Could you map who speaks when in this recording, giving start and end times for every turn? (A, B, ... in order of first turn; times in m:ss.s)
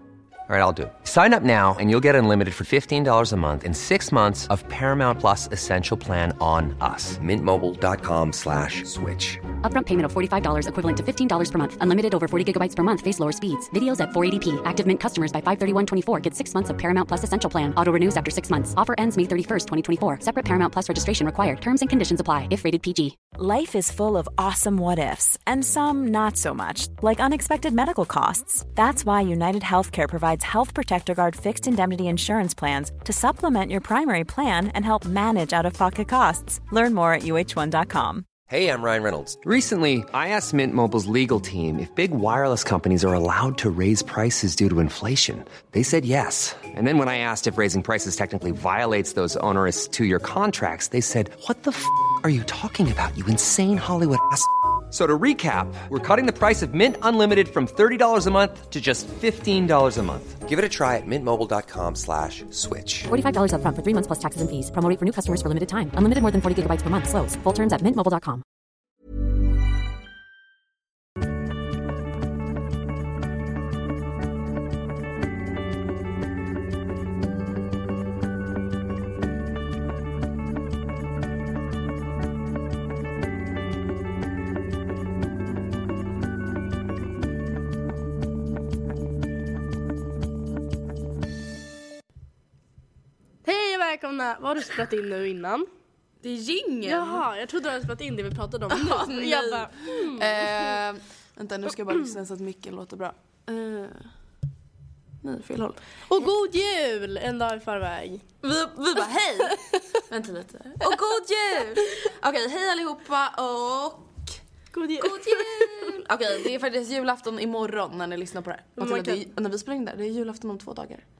0:00.5-0:09.4 A
0:09.6-0:23.2 B
0:23.3-0:38.3 C
0:38.5-1:03.1 A
1:03.1-1:08.4 B
1:33.4-1:35.7 D
1:36.2-1:37.3 E
1:36.8-1:40.6 D
1:38.7-1:44.1 E
1:45.2-1:45.8 E
1:46.1-1:48.2 D
1:48.4-1:54.4 E
1:54.7-1:55.9 D
1:55.0-2:01.0 E
1:58.8-1:59.3 D